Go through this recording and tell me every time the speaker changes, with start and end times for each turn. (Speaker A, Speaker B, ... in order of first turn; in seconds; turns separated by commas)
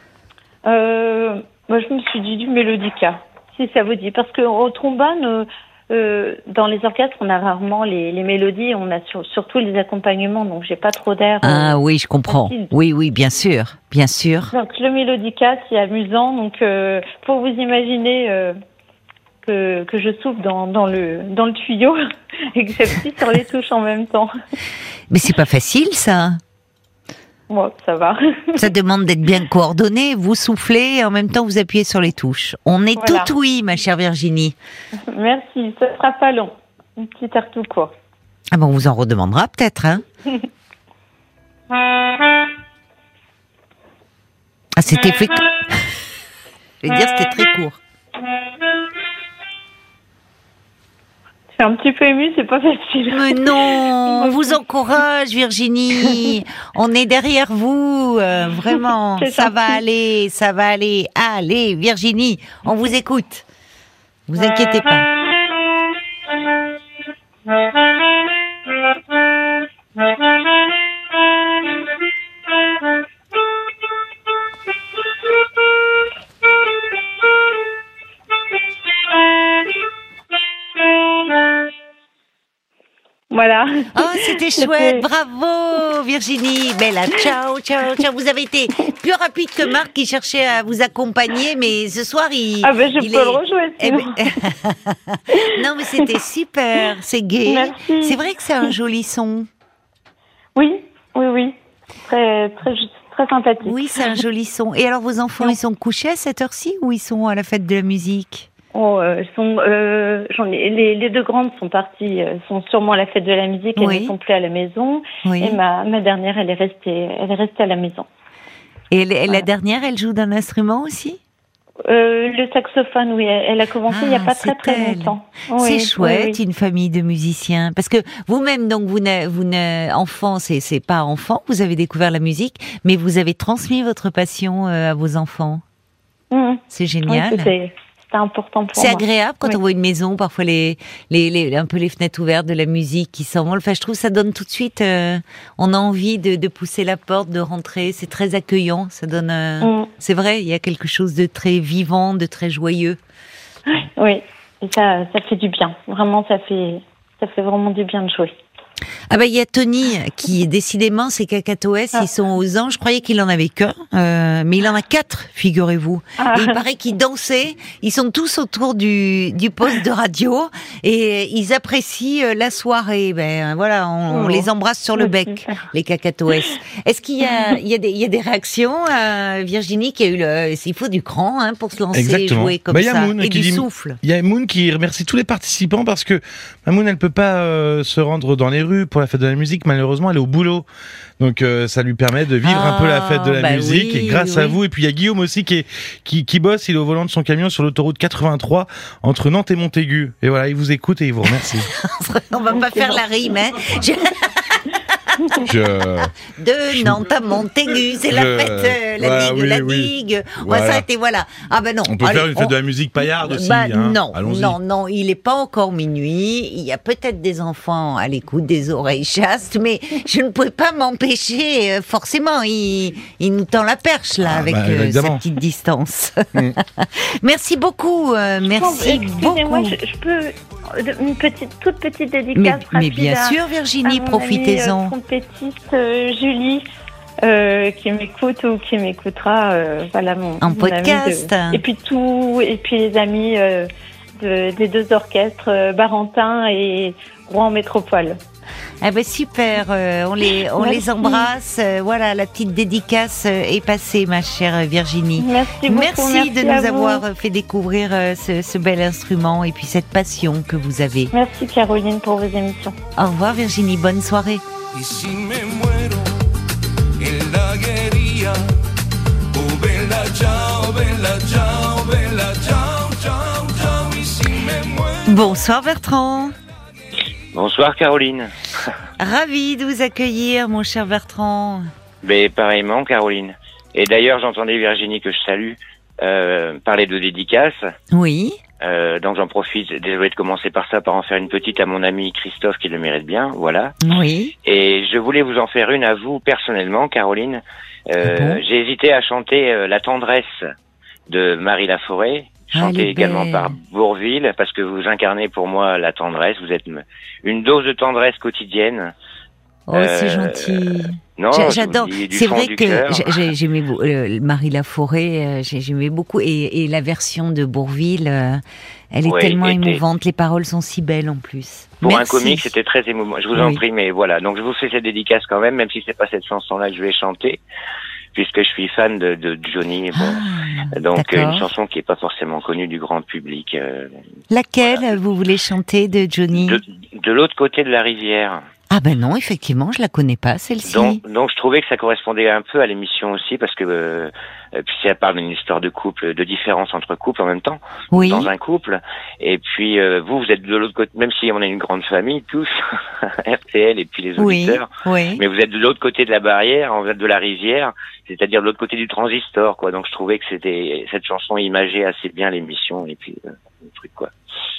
Speaker A: 0.7-12.7, Speaker B: 11.4-14.5, Speaker A: 14.5-18.6, Speaker A: 19.4-22.0, Speaker A: 22.5-24.3, Speaker B: 25.1-26.4, Speaker A: 27.5-28.7, Speaker B: 28.6-34.6, Speaker A: 33.0-33.3, Speaker A: 35.1-37.9, Speaker B: 38.5-40.0, Speaker B: 44.8-45.8, Speaker B: 46.8-47.8, Speaker A: 51.5-54.6, Speaker B: 53.1-63.5, Speaker A: 59.2-59.8, Speaker B: 64.3-65.1, Speaker A: 65.3-65.6, Speaker A: 67.5-69.2, Speaker A: 70.1-70.6, Speaker A: 79.0-79.7, Speaker A: 80.8-81.7, Speaker A: 83.3-85.1, Speaker B: 83.9-99.5, Speaker A: 92.6-94.4, Speaker A: 95.4-96.1, Speaker A: 97.5-98.7, Speaker A: 100.6-103.8, Speaker B: 103.7-108.5, Speaker A: 108.7-118.1, Speaker B: 113.8-114.1, Speaker B: 115.2-115.6, Speaker B: 118.9-121.2, Speaker A: 121.9-126.4, Speaker B: 123.9-135.6, Speaker A: 136.3-139.6, Speaker B: 136.7-137.5, Speaker B: 138.8-153.0, Speaker A: 149.6-149.9, Speaker A: 153.7-158.3, Speaker B: 159.1-184.0, Speaker A: 166.2-166.6, Speaker A: 174.1-174.5, Speaker C: 181.9-190.7, Speaker C: 191.2-201.7, Speaker B: 192.4-194.6, Speaker B: 201.4-204.7, Speaker A: 202.6-203.0, Speaker C: 205.4-206.1, Speaker B: 206.0-212.6, Speaker C: 206.7-207.1, Speaker C: 208.0-210.9, Speaker C: 211.9-214.6, Speaker B: 213.2-229.8, Speaker C: 224.2-225.2, Speaker A: 228.5-236.7, Speaker B: 232.3-234.9, Speaker A: 237.2-248.2, Speaker B: 240.4-241.6, Speaker B: 248.8-261.1, Speaker A: 250.5-251.3, Speaker A: 255.2-257.0, Speaker A: 261.1-262.8, Speaker B: 263.0-264.4, Speaker D: 264.8-266.2, Speaker D: 267.0-268.6, Speaker D: 269.3-274.9, Speaker B: 275.1-276.3, Speaker E: 277.3-278.7, Speaker B: 279.0-281.7, Speaker E: 282.0-287.6, Speaker B: 287.9-288.4, Speaker E: 288.6-293.8, Speaker B: 293.8-294.3, Speaker E: 294.4-300.4, Speaker B: 298.0-298.4, Speaker E: 301.1-308.9, Speaker B: 302.5-303.5, Speaker B: 309.7-322.5, Speaker E: 309.7-313.3, Speaker E: 319.1-319.8, Speaker E: 321.8-327.4, Speaker B: 323.3-323.6, Speaker E: 328.1-333.9, Speaker B: 329.9-331.5, Speaker B: 334.3-336.6, Speaker E: 334.6-335.0, Speaker E: 336.3-338.4, Speaker B: 338.7-341.0, Speaker E: 340.6-364.1, Speaker B: 347.9-348.3, Speaker B: 354.2-355.2